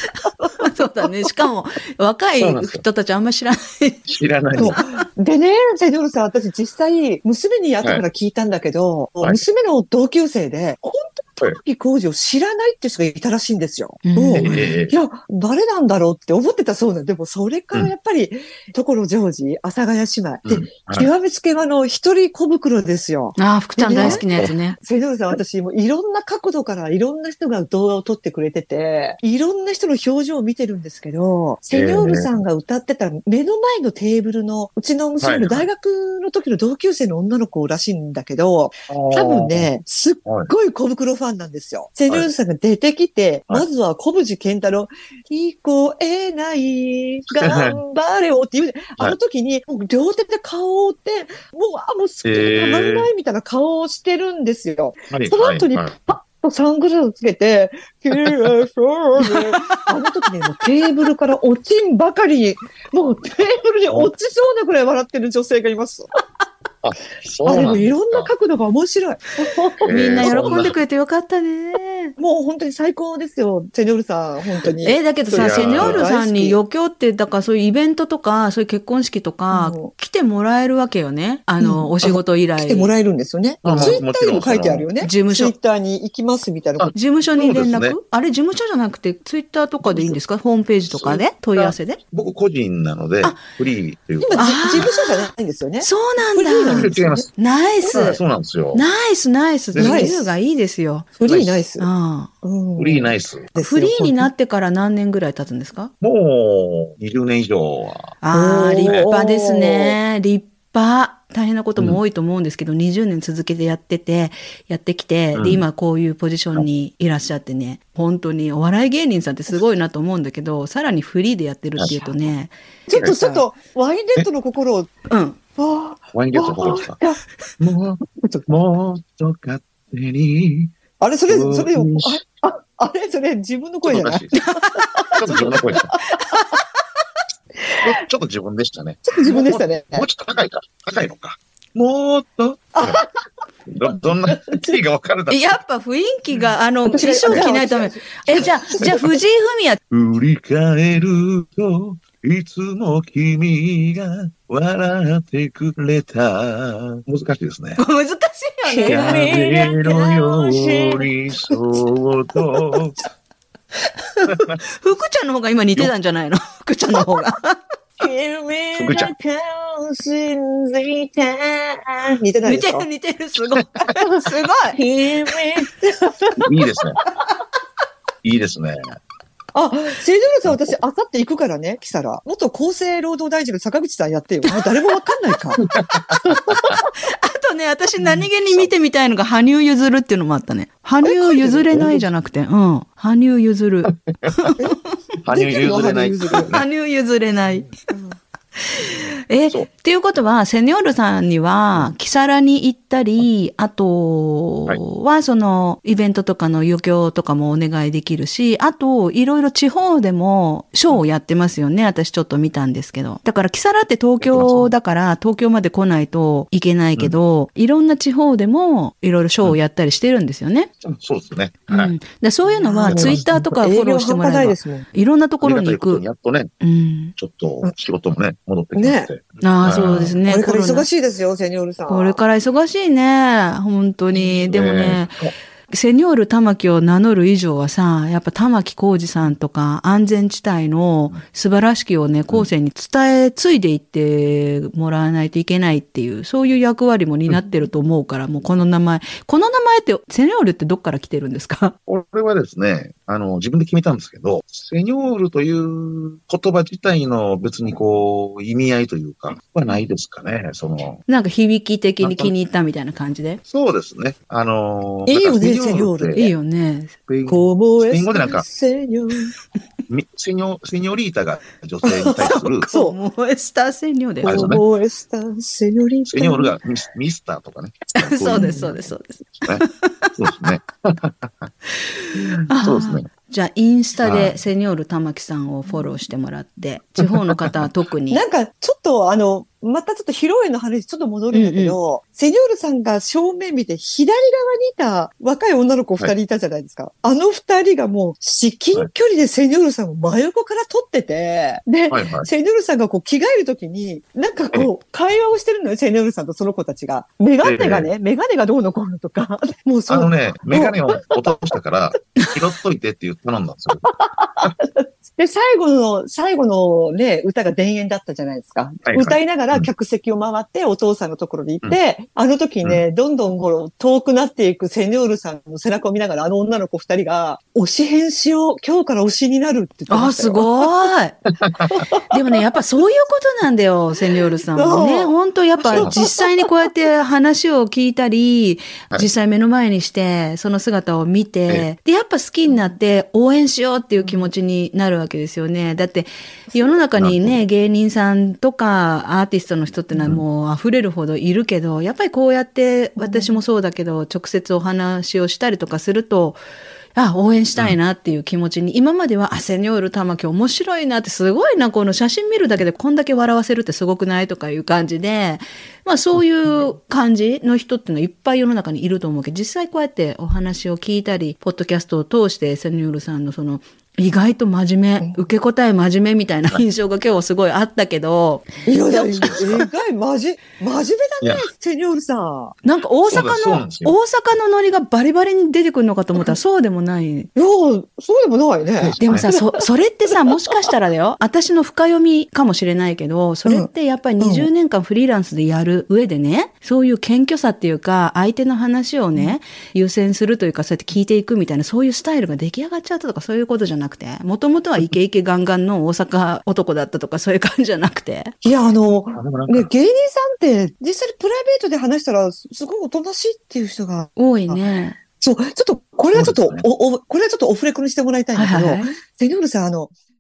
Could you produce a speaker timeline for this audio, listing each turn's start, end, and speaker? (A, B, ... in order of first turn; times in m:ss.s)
0:00.4-0:00.7 A
0:00.6-0:04.8 B
0:02.4-0:02.8 C
0:04.1-0:04.8 C
0:04.6-1:06.1 A
0:14.0-0:14.8 B
0:14.4-0:15.0 C
0:20.5-0:21.1 C
0:23.4-0:24.8 B
0:24.0-0:24.5 C
0:31.7-0:32.4 C
0:35.2-0:35.7 C
0:38.9-0:39.7 C
0:40.3-0:40.5 C
0:47.4-0:47.8 C
0:52.2-0:53.1 C
0:55.1-0:56.0 C
0:59.2-0:59.8 B
1:06.8-1:08.3 C
1:07.5-1:10.4 A
1:09.8-1:10.8 C
1:09.9-1:12.1 B
1:12.2-1:16.6 A
1:14.8-1:22.9 B
1:15.3-1:16.0 C
1:19.5-1:19.9 A
1:21.6-1:26.9 A
1:23.6-1:24.9 C
1:25.0-1:25.5 B
1:26.8-1:28.0 C
1:27.0-1:32.0 B
1:29.9-1:30.2 C
1:30.9-1:35.0 C
1:34.2-1:37.3 A
1:34.4-1:35.3 B
1:35.8-1:38.2 B
1:36.7-1:37.3 C
1:37.9-1:38.8 C
1:38.7-1:41.1 B
1:39.7-1:40.1 C
1:39.8-1:40.3 A
1:41.2-1:41.9 A
1:41.3-1:41.5 C
1:41.8-1:42.3 B
1:42.4-1:44.3 A
1:42.8-1:43.5 C
1:43.6-1:45.9 B
1:46.0-1:48.2 C
1:48.2-2:03.4 B
1:48.3-1:50.0 A
1:48.8-1:49.1 C
1:55.4-1:55.7 C
2:01.8-2:02.3 C
2:02.9-2:04.9 A
2:05.1-2:05.4 B
2:05.6-2:07.2 A
2:06.1-2:07.0 C
2:07.6-2:10.7 C
2:08.2-2:08.5 A
2:11.0-2:16.1 A
2:11.3-2:12.2 C
2:13.8-2:14.4 C
2:14.3-2:16.6 B
2:15.2-2:15.9 C
2:17.6-2:17.9 A
2:17.8-2:23.0 C
2:19.1-2:20.1 A
2:22.8-2:23.1 A
2:23.7-2:25.6 C
2:24.3-2:24.8 A
2:25.3-2:29.8 B
2:26.9-2:29.1 A
2:29.9-2:37.8 C
2:37.8-2:39.3 B
2:38.7-2:41.5 A
2:38.8-2:43.0 C
2:44.1-2:47.6 B
2:44.3-2:44.6 C
2:48.0-2:52.9 A
2:48.8-2:49.1 C
2:52.4-2:54.8 B
2:54.0-2:56.4 A
2:56.4-2:57.0 C
2:58.2-2:59.0 C
2:59.5-3:05.6 A
3:00.4-3:00.8 C
3:05.7-3:06.8 C
3:06.2-3:06.8 A
3:07.0-3:14.8 B
3:08.1-3:08.7 C
3:11.0-3:11.7 A
3:11.7-3:12.1 C
3:13.9-3:14.5 C
3:15.2-3:16.6 C
3:15.3-3:16.5 A
3:16.4-3:17.7 B
3:17.9-3:18.2 A
3:18.6-3:40.7 B
3:34.2-3:34.7 C
3:40.8-3:41.9 C
3:41.7-3:46.0 B
3:42.5-3:44.9 A
3:42.9-3:43.3 C
3:45.4-3:46.5 C
3:46.6-3:47.2 B
3:47.2-3:50.2 C
3:48.8-3:49.1 A
3:49.4-3:50.9 B
3:50.3-3:52.2 A
3:51.9-3:55.2 B
3:54.2-3:55.3 C
3:55.7-4:11.8 B
4:11.9-4:21.0 C
4:21.1-4:23.4 B
4:22.0-4:22.3 C
4:23.5-4:26.2 C
4:25.1-4:26.3 A
4:26.1-4:27.0 B
4:27.1-4:28.4 C
4:27.3-4:29.3 A
4:29.9-4:32.7 C
4:31.8-4:33.0 A
4:32.2-4:34.5 B
4:34.2-4:36.6 A
4:34.2-4:34.6 C
4:36.1-4:39.6 C
4:38.0-4:40.1 B
4:38.3-4:38.7 A
4:40.2-4:41.5 C
4:41.8-4:48.2 B
4:42.6-4:43.1 C
4:44.0-4:44.4 C
4:47.0-4:47.6 C
4:48.1-5:11.4 A
4:51.3-4:51.8 B
5:01.9-5:02.3 C
5:07.4-5:07.9 C
5:09.9-5:13.9 C
5:13.8-5:30.6 A
5:18.9-5:19.7 C
5:29.9-5:31.2 B
5:31.4-5:31.8 C
5:31.7-5:32.1 A
5:32.1-5:56.4 B
5:34.5-5:36.7 A
5:44.0-5:44.3 A
5:46.5-5:46.8 A
5:47.0-5:47.4 C
5:49.9-5:50.2 C
5:53.0-5:53.4 A
5:57.0-6:19.6 B
6:15.0-6:15.3 A
6:18.7-6:22.6 A
6:19.2-6:19.5 C
6:21.2-6:21.5 C
6:22.6-6:27.3 B
6:23.1-6:24.0 C
6:27.4-6:29.4 A
6:28.8-6:29.3 C
6:29.0-6:48.3 B
6:34.2-6:34.5 A
6:48.4-6:59.9 A
6:49.2-6:49.7 C
6:54.2-6:55.0 B
6:56.1-6:56.6 C
6:58.4-6:58.9 B